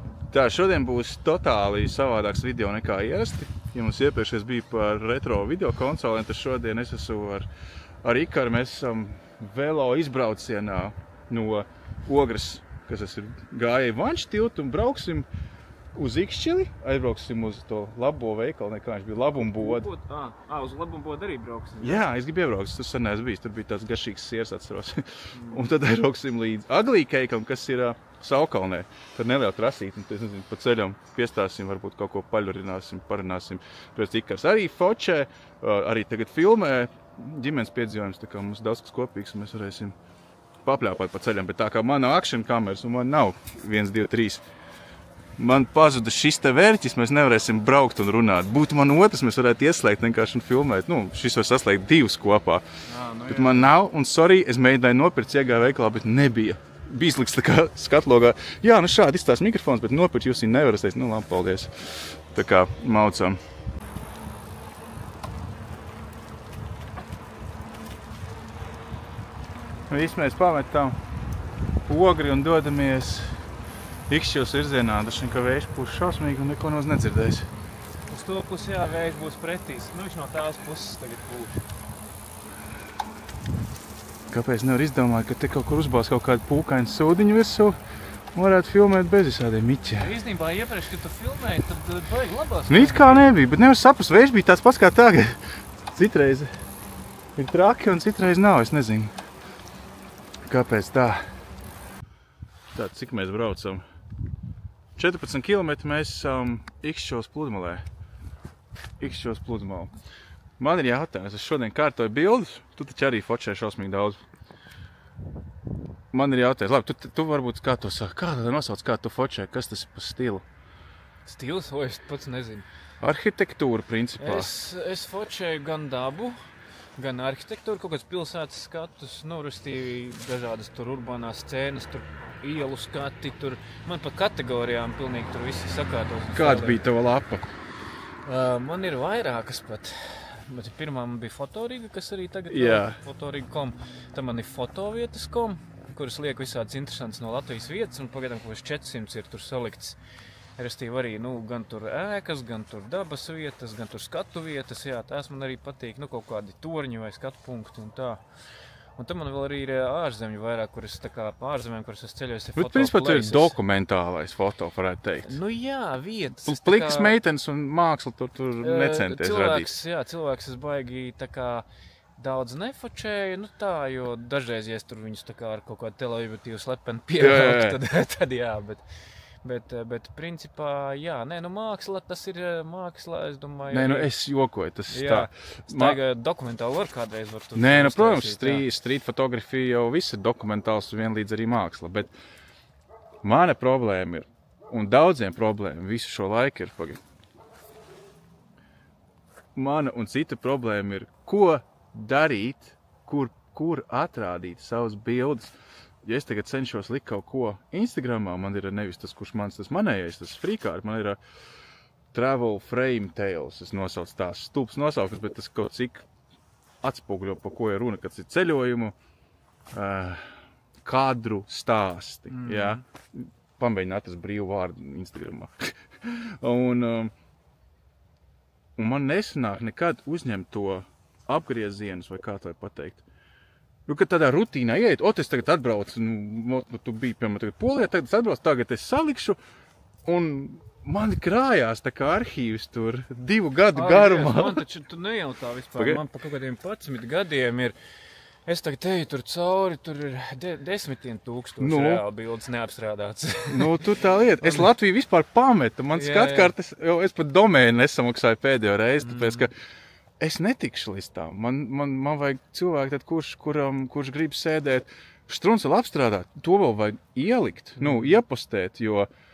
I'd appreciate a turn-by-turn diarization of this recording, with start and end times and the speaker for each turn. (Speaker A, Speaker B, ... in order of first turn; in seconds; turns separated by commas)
Speaker A: 0.3-7.5, Speaker A: 8.0-15.3, Speaker A: 15.9-19.9, Speaker B: 19.4-22.1, Speaker A: 21.8-40.0, Speaker B: 25.3-25.7, Speaker A: 40.6-44.4, Speaker A: 45.4-52.6, Speaker B: 52.9-53.7, Speaker A: 53.3-63.4, Speaker A: 69.9-71.0, Speaker A: 71.9-73.4, Speaker A: 74.1-77.5, Speaker B: 78.1-81.5, Speaker A: 84.3-87.8, Speaker A: 88.3-90.1, Speaker B: 90.0-93.4, Speaker A: 92.7-95.4, Speaker A: 95.9-96.5, Speaker A: 97.4-99.1, Speaker A: 100.5-101.2, Speaker A: 102.8-103.8, Speaker A: 105.0-107.8, Speaker A: 109.0-109.9, Speaker A: 110.6-114.2, Speaker A: 116.1-120.5, Speaker B: 121.2-122.7, Speaker A: 123.0-124.5, Speaker B: 124.2-126.4, Speaker B: 127.0-136.9, Speaker A: 136.3-137.4, Speaker B: 138.2-150.0, Speaker A: 142.5-143.0, Speaker B: 150.6-158.2, Speaker B: 159.0-163.6, Speaker A: 162.6-165.4, Speaker B: 165.2-167.2, Speaker A: 166.4-169.7, Speaker B: 168.6-171.7, Speaker B: 172.2-178.8, Speaker A: 177.2-177.8, Speaker B: 179.4-184.1, Speaker A: 183.7-186.0, Speaker B: 184.9-188.7, Speaker A: 187.6-192.1, Speaker A: 193.2-197.0, Speaker A: 199.6-211.2, Speaker A: 212.1-216.1, Speaker A: 216.8-218.9, Speaker A: 219.7-227.1, Speaker B: 222.3-222.8, Speaker A: 228.8-233.1, Speaker A: 233.9-239.4, Speaker A: 240.1-244.7, Speaker B: 243.7-247.8, Speaker B: 248.5-254.7, Speaker A: 251.6-252.0, Speaker A: 253.5-259.5, Speaker B: 255.9-256.5, Speaker B: 259.0-259.5, Speaker A: 260.2-269.1, Speaker B: 267.8-268.2